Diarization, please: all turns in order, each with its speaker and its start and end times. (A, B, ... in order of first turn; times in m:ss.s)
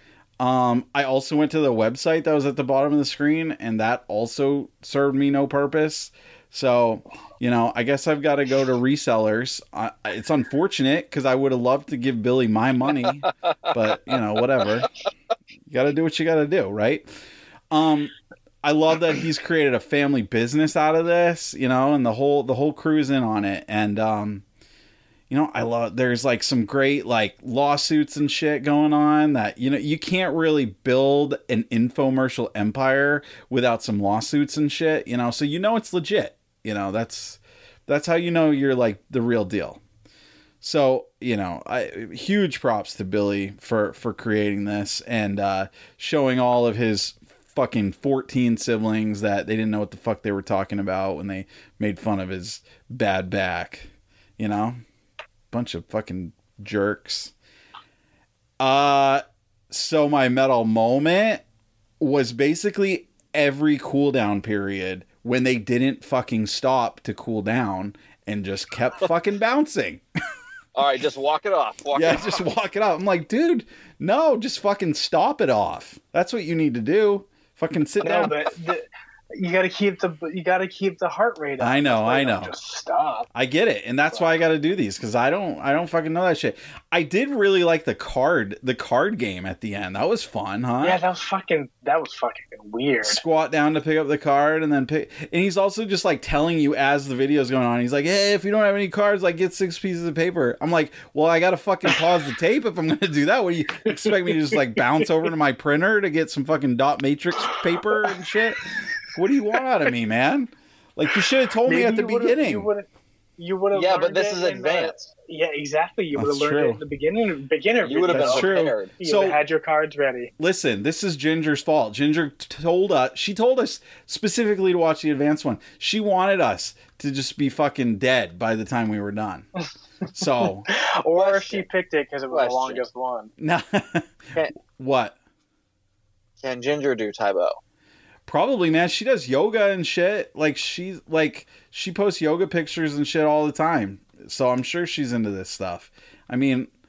0:00.4-0:14.9 A
0:15.7-0:17.1 A
0:17.7-0:24.4 A
0:25.3-0:39.8 A
0:40.6-0:54.8 A
0:55.5-0:57.3 A
0:58.6-1:01.4 A
1:02.0-1:10.0 A
1:10.8-1:12.4 B
1:12.0-1:18.4 A
1:18.0-1:23.3 C
1:21.6-1:22.5 A
1:23.3-1:31.0 A
1:30.8-1:33.2 C
1:33.0-1:52.7 A
1:43.9-1:45.1 C
1:47.5-1:48.2 C
1:51.6-2:00.3 C
1:53.7-1:55.1 B
1:56.1-1:56.8 A
1:57.8-1:58.9 B
1:58.1-1:59.4 A
2:00.4-2:09.5 A
2:10.2-2:10.7 A
2:10.7-2:13.3 C
2:11.2-2:11.7 B
2:12.3-2:12.8 B
2:13.4-2:15.2 A
2:16.4-2:17.6 B
2:18.3-2:26.7 A